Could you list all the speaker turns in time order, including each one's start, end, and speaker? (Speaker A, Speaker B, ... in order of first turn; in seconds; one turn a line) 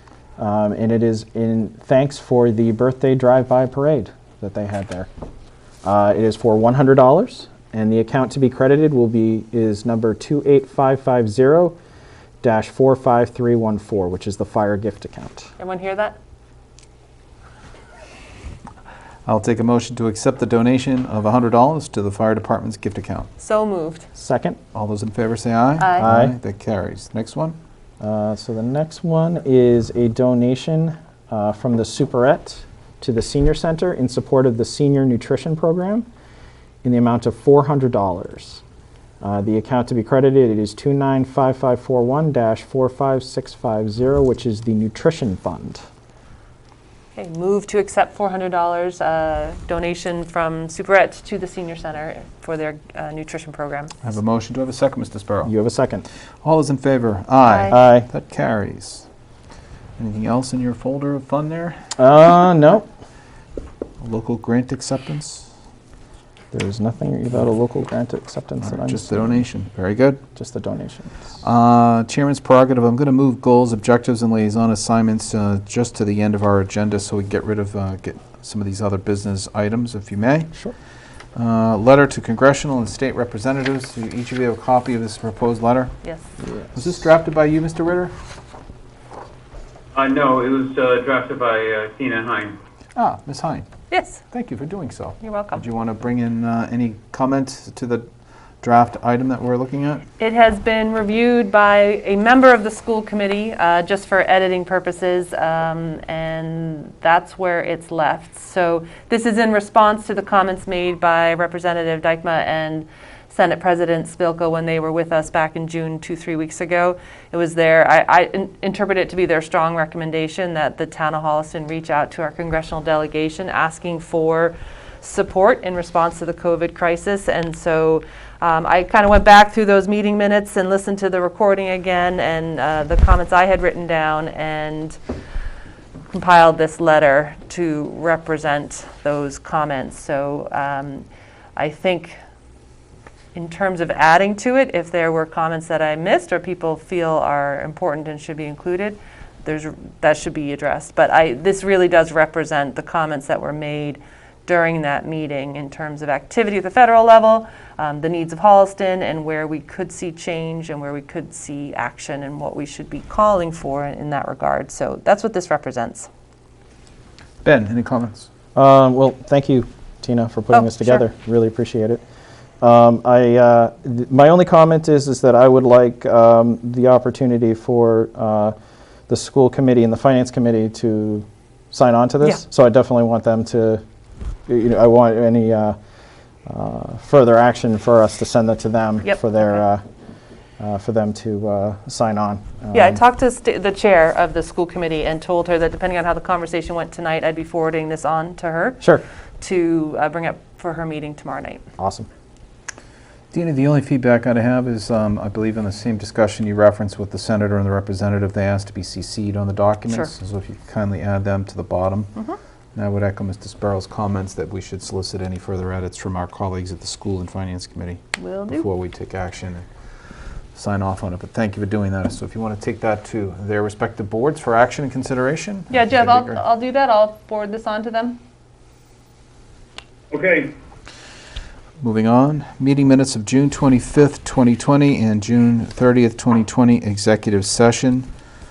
Speaker A: 0.4-5.1
Speaker A: 5.8-11.8
Speaker A: 12.4-15.5
Speaker B: 15.6-16.2
Speaker C: 19.3-23.3
Speaker B: 23.4-24.1
Speaker A: 24.2-24.6
Speaker C: 24.7-27.6
Speaker B: 25.8-26.1
Speaker A: 26.0-26.3
Speaker A: 28.0-36.1
Speaker A: 36.8-38.6
Speaker A: 39.2-45.8
Speaker B: 47.2-54.0
Speaker C: 54.0-55.5
Speaker A: 55.5-56.0
Speaker C: 56.4-59.0
Speaker B: 57.5-57.8
Speaker A: 57.7-58.1
Speaker C: 60.0-61.9
Speaker A: 62.0-62.9
Speaker C: 64.0-65.5
Speaker A: 66.5-69.4
Speaker C: 68.6-70.2
Speaker A: 70.3-71.2
Speaker C: 71.4-80.5
Speaker C: 81.3-86.0
Speaker A: 86.5-86.8
Speaker C: 86.8-88.1
Speaker D: 90.0-92.6
Speaker C: 93.0-93.7
Speaker B: 93.9-94.2
Speaker C: 94.3-98.1
Speaker B: 95.2-95.6
Speaker C: 98.6-100.1
Speaker B: 100.2-135.0
Speaker B: 136.1-142.2
Speaker B: 143.3-166.1
Speaker C: 167.4-168.3
Speaker A: 168.5-172.0
Speaker A: 172.6-178.6
Speaker A: 179.1-183.8
Speaker A: 184.5-185.8
Speaker A: 186.4-189.8
Speaker A: 190.6-193.0
Speaker B: 192.7-201.6
Speaker A: 201.8-202.1
Speaker C: 203.3-212.1
Speaker C: 212.7-219.7
Speaker B: 218.2-218.7
Speaker C: 220.5-226.4
Speaker B: 225.7-228.2
Speaker D: 230.1-230.5
Speaker C: 231.8-238.1